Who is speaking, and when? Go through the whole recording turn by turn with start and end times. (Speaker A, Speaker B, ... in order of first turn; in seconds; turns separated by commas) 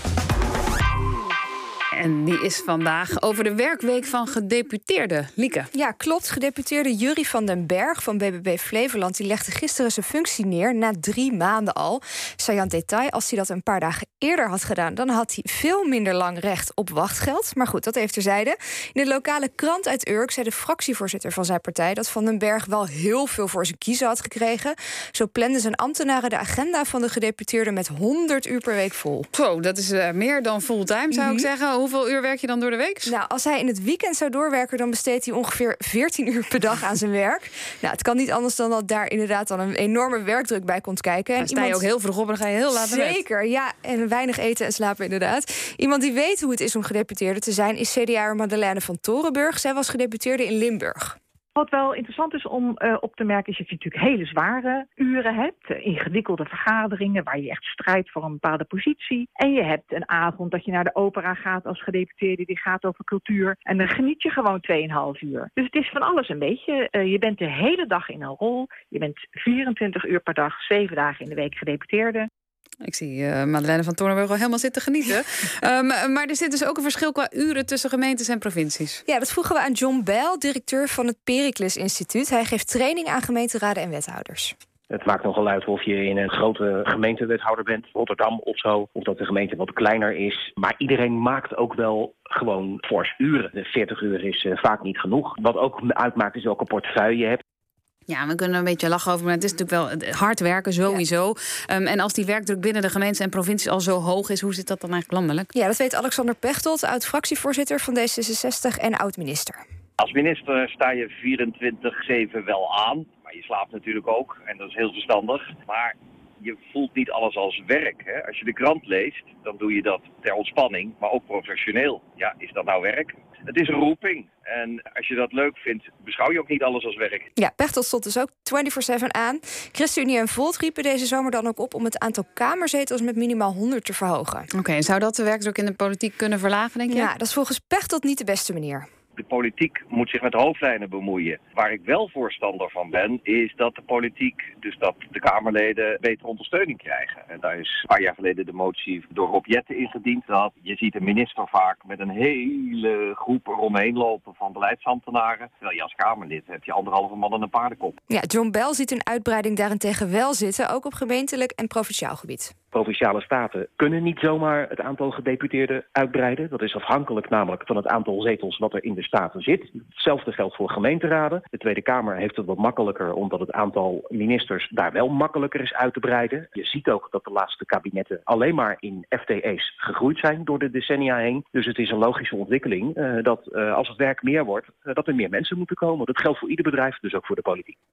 Speaker A: 2.0-5.7, Speaker B: 5.7-29.3, Speaker A: 29.3-33.1, Speaker B: 31.1-31.5, Speaker B: 33.0-41.9, Speaker A: 41.4-43.2, Speaker B: 42.7-51.2, Speaker C: 51.5-72.3, Speaker A: 72.8-79.0, Speaker B: 79.1-84.5, Speaker D: 84.9-97.4, Speaker A: 98.1-105.5, Speaker B: 105.5-109.6, Speaker E: 110.0-127.3, Speaker B: 127.4-134.5, Speaker A: 134.6-137.1, Speaker B: 136.9-138.8, Speaker E: 139.2-158.0, Speaker B: 158.1-162.5, Speaker D: 162.7-187.8